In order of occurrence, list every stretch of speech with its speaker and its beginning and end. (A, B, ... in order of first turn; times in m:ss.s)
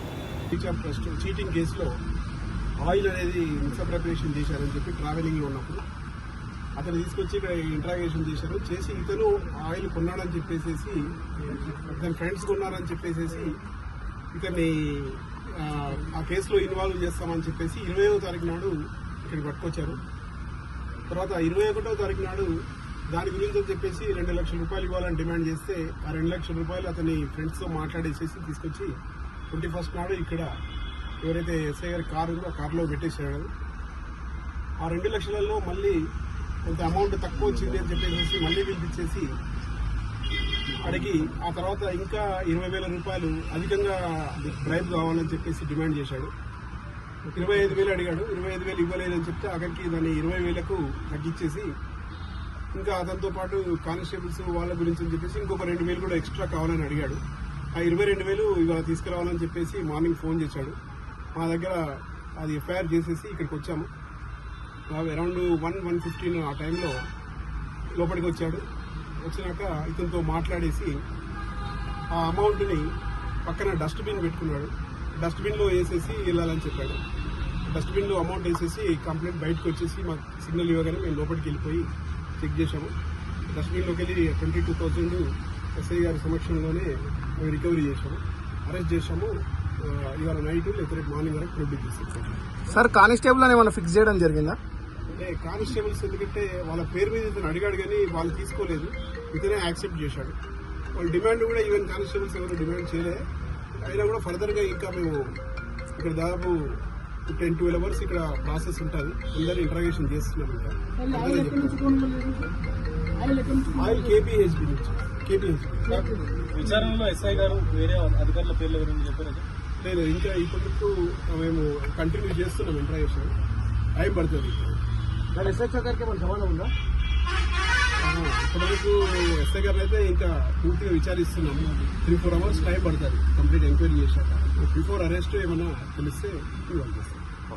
0:00.5-0:01.9 A
0:02.8-0:05.8 A
0:06.8-0:13.6 A
0:14.3-0:20.0 A
0:21.1-0:22.6 A
0:23.1-0:29.0 A
0:29.5-0:30.5 A
0:31.2-0:33.5 A
0:34.8-0:36.0 A
0:36.6-0:39.3 A
0:40.8-0:46.3 A
0:47.3-0:51.7 A
0:52.7-0:57.2 A
0:57.7-1:00.8 A
1:01.4-1:03.9 A
1:04.9-1:07.0 A
1:08.0-1:08.6 A
1:09.2-1:11.0 A
1:12.1-1:12.9 A
1:13.4-1:17.0 A
1:17.7-1:22.9 A
1:23.5-1:32.4 A
1:32.7-1:34.6 B
1:35.1-1:40.4 A
1:41.0-1:43.2 A
1:43.8-1:45.4 A
1:46.0-1:51.9 A
1:51.0-1:52.5 B
1:53.2-1:54.0 B
1:53.7-1:56.1 A
1:55.9-1:56.4 B
1:56.5-1:59.5 C
1:59.8-2:03.3 A
2:04.0-2:04.8 A
2:05.3-2:06.7 B
2:08.0-2:17.2 A